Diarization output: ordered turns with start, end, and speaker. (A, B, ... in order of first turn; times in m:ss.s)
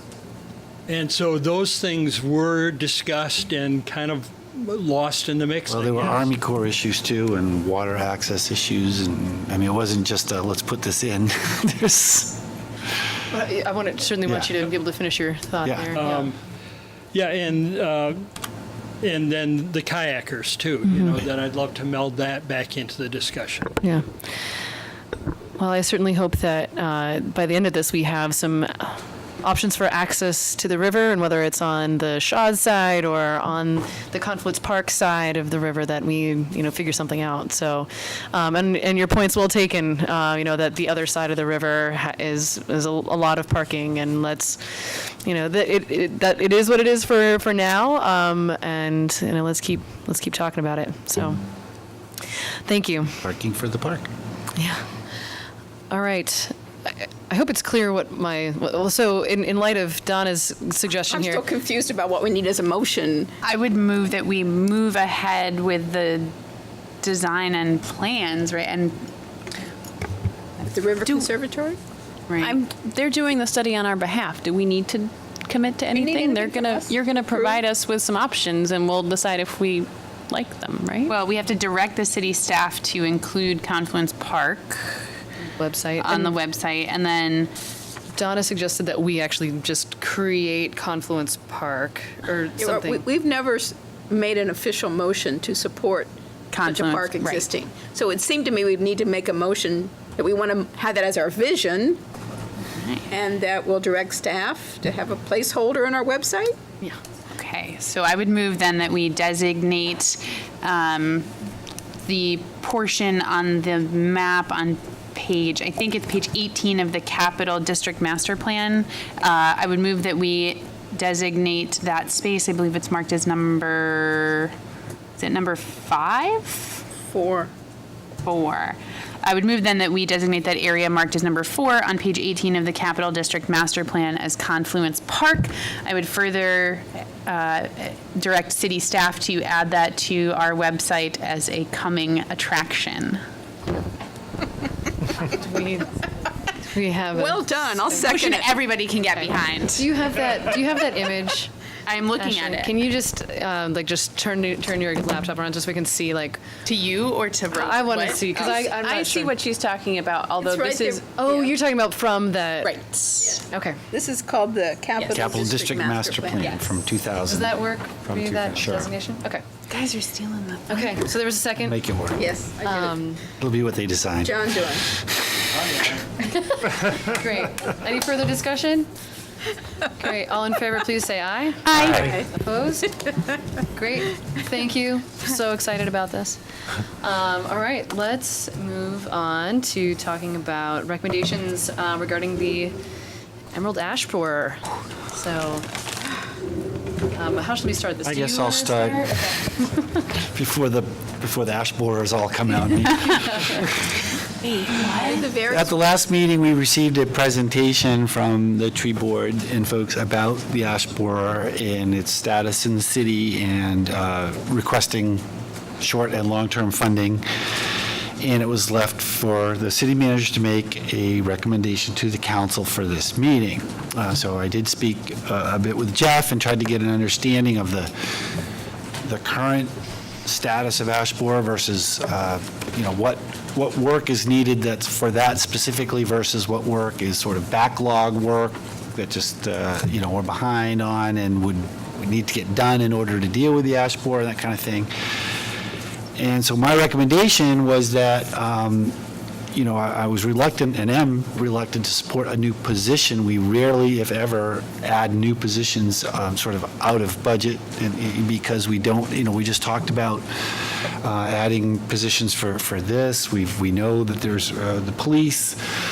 0:00.9-0:06.3 A
0:05.7-0:12.4 B
0:13.3-0:16.3 C
0:14.2-0:14.5 B
0:15.6-0:16.0 B
0:16.0-0:16.4 A
0:17.1-0:18.2 A
0:19.0-0:23.8 A
0:20.9-0:21.2 C
0:23.8-0:24.1 C
0:25.6-0:51.4 C
0:52.6-0:53.2 C
0:53.2-0:54.1 B
0:54.6-0:54.8 C
0:55.9-1:01.4 C
1:01.1-1:03.3 D
1:03.4-1:06.3 E
1:07.0-1:09.1 E
1:10.6-1:11.8 D
1:12.3-1:12.6 E
1:12.6-1:16.6 F
1:15.9-1:17.7 D
1:17.2-1:21.1 F
1:21.1-1:25.1 E
1:25.5-1:26.4 C
1:26.0-1:27.5 E
1:28.1-1:33.0 C
1:32.6-1:42.0 D
1:36.5-1:37.5 E
1:42.7-1:43.1 E
1:43.1-1:46.6 D
1:47.4-1:51.3 E
1:52.1-2:04.5 E
2:05.2-2:06.8 E
2:07.1-2:07.5 D
2:08.2-2:23.2 E
2:25.3-2:25.9 C
2:26.7-2:27.9 C
2:27.1-2:28.5 D
2:27.9-2:29.8 E
2:29.6-2:31.5 C
2:31.9-2:32.7 E
2:32.2-2:36.4 C
2:36.6-2:40.6 E
2:37.5-2:39.4 C
2:38.4-2:38.7 D
2:40.4-2:41.5 D
2:41.2-2:42.8 C
2:42.6-2:46.7 D
2:43.4-2:43.8 C
2:45.0-2:48.9 B
2:47.3-2:49.4 C
2:49.7-2:50.9 E
2:50.7-2:51.8 C
2:51.6-2:52.2 B
2:52.2-2:53.0 D
2:52.6-2:53.2 C
2:53.4-2:55.0 B
2:54.2-2:54.9 D
2:56.2-2:58.9 C
2:59.9-3:02.9 C
3:01.7-3:02.0 E
3:01.7-3:02.2 B
3:01.9-3:02.3 D
3:03.7-3:06.4 C
3:07.0-3:12.8 C
3:13.5-3:15.7 C
3:17.1-3:19.7 C
3:18.0-3:19.1 B
3:20.1-3:23.7 B
3:24.4-3:25.2 E
3:24.7-3:25.7 D
3:25.5-3:35.2 B
3:35.8-3:37.2 B
3:38.2-3:48.2 B
3:49.0-3:49.7 B
3:50.2-4:04.9 B
4:06.2-4:09.0 B
4:09.5-4:25.6 B